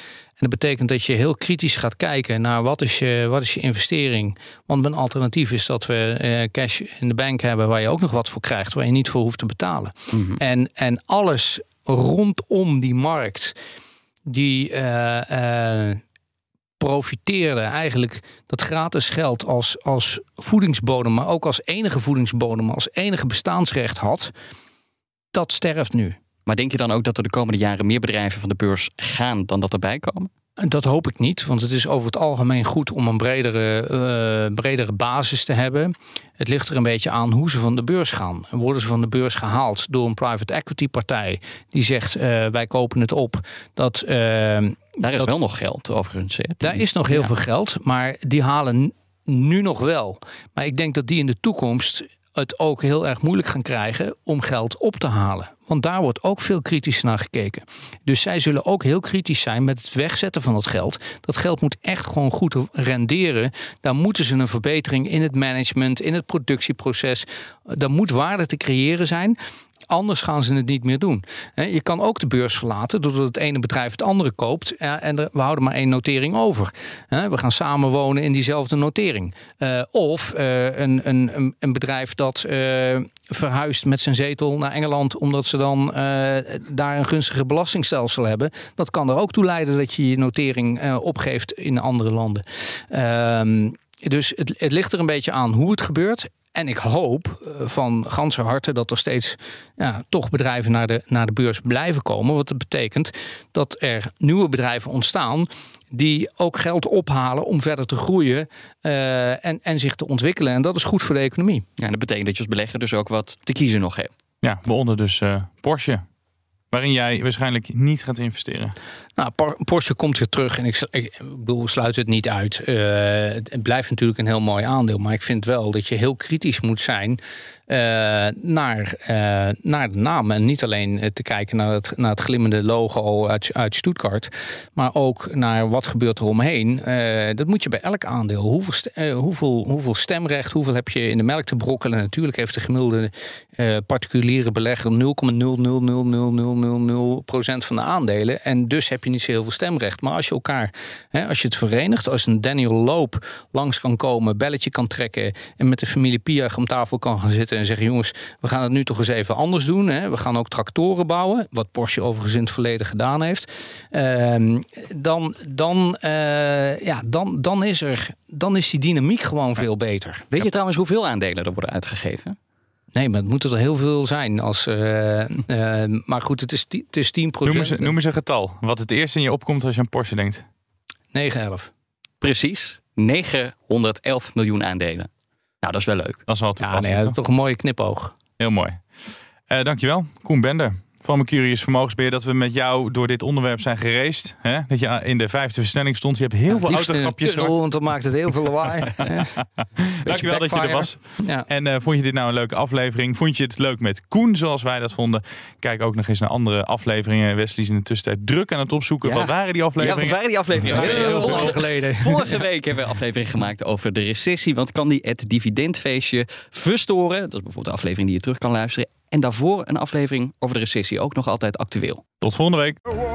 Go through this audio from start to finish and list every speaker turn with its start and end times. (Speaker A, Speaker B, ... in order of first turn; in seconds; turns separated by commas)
Speaker A: 0.4-13.6, Speaker B: 10.1-10.4, Speaker A: 14.3-16.0, Speaker A: 16.8-24.3, Speaker A: 25.3-26.2, Speaker B: 26.4-30.3, Speaker A: 30.6-45.3, Speaker B: 45.0-47.3, Speaker A: 46.6-69.4, Speaker A: 69.9-111.6, Speaker B: 111.8-114.1, Speaker C: 114.4-116.0, Speaker C: 116.7-118.8, Speaker A: 119.2-170.3, Speaker B: 170.3-172.4, Speaker A: 172.9-178.0, Speaker C: 177.4-180.4, Speaker A: 181.1-181.7, Speaker B: 182.2-185.1, Speaker B: 185.6-186.2, Speaker C: 186.3-187.2, Speaker A: 186.6-188.2, Speaker C: 188.4-188.8, Speaker C: 189.5-197.5, Speaker A: 196.5-199.4, Speaker C: 199.8-211.6, Speaker A: 200.0-201.5, Speaker B: 209.0-222.0, Speaker A: 210.7-212.4, Speaker C: 222.2-222.8